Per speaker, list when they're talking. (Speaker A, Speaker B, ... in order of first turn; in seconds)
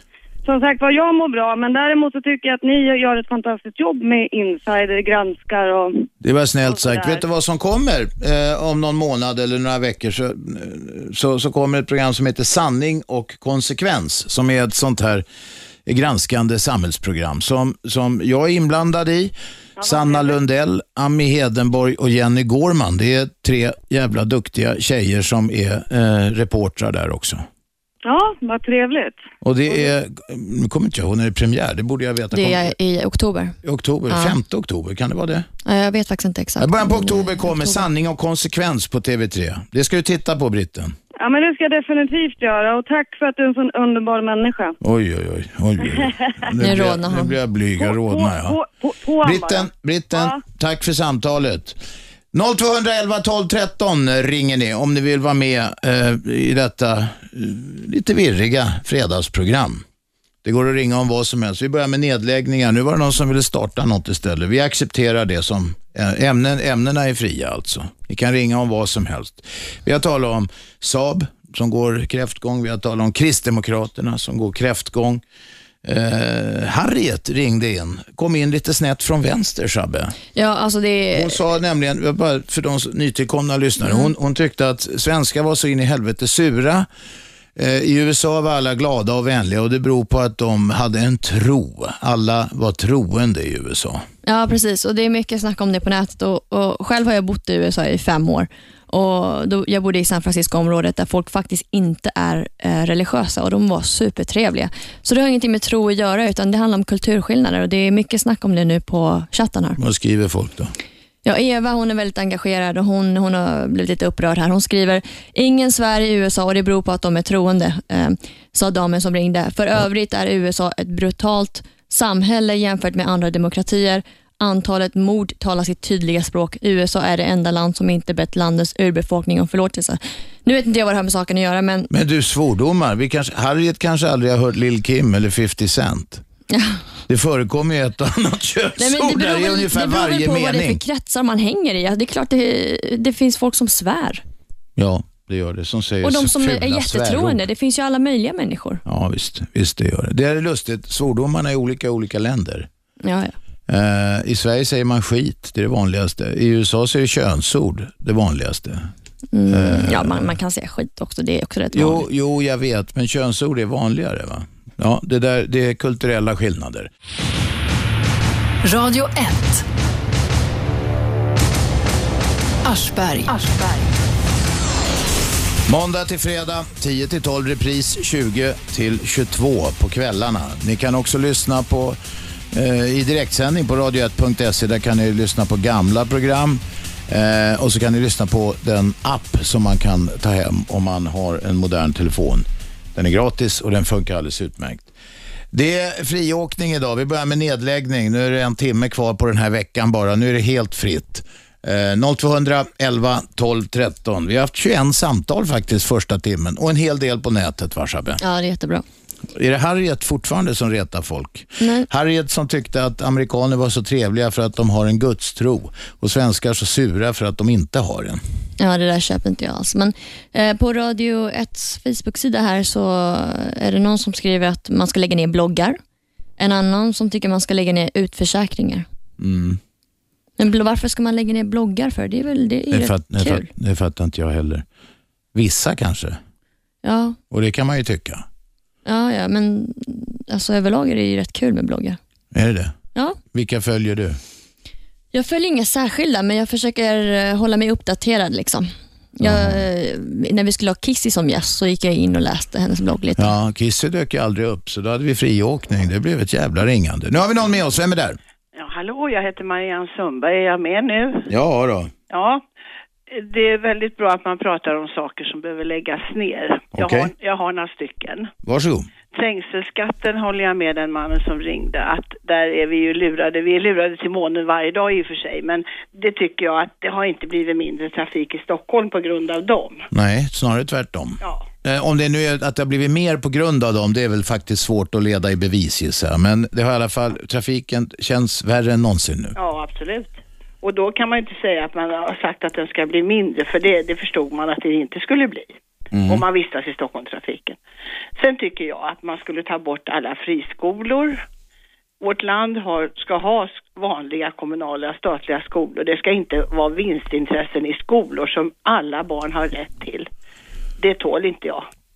Speaker A: 0.5-6.1, 6.7-7.2, 19.8-20.3, 28.0-29.2, 41.2-44.8, 47.8-49.6
Speaker B: 6.2-15.2, 15.9-27.4, 29.4-32.8, 33.6-35.5, 36.6-41.0, 44.8-48.6, 49.2-51.8, 52.3-59.8, 60.4-75.2, 75.8-80.2, 81.1-86.9, 87.6-94.0, 109.8-110.7, 131.9-136.2, 137.1-140.8, 144.8-147.4, 148.9-152.7, 153.7-158.9, 159.5-160.3, 161.7-166.9, 175.7-182.0, 182.5-194.9, 195.5-208.2, 209.3-218.2, 229.2-229.6, 232.7-234.6, 235.3-236.2, 237.3-238.2, 242.3-242.7, 243.3-244.2, 249.2-249.7, 253.2-258.2, 261.3-261.9, 266.7-267.1, 268.4-268.9, 279.9-289.4, 295.9-296.2
Speaker C: 32.3-33.6, 34.1-34.4, 35.7-37.9, 46.6-47.4, 80.3-81.3, 83.8-84.1, 94.3-109.8, 111.2-131.9, 136.5-136.8, 138.8-144.2, 146.0-148.8, 153.0-153.3, 159.3-162.1, 208.2-208.8, 211.6-211.9, 218.6-225.8, 226.4-228.9, 230.4-233.5, 236.8-237.2, 238.9-242.0, 245.1-253.3
Speaker D: 168.6-169.7, 172.6-174.0
Speaker E: 258.6-261.3, 262.1-262.4, 263.1-268.3, 269.1-279.9, 281.2-281.5, 289.4-295.6, 296.1-297.6, 298.2-301.2, 302.0-310.1, 310.8-311.7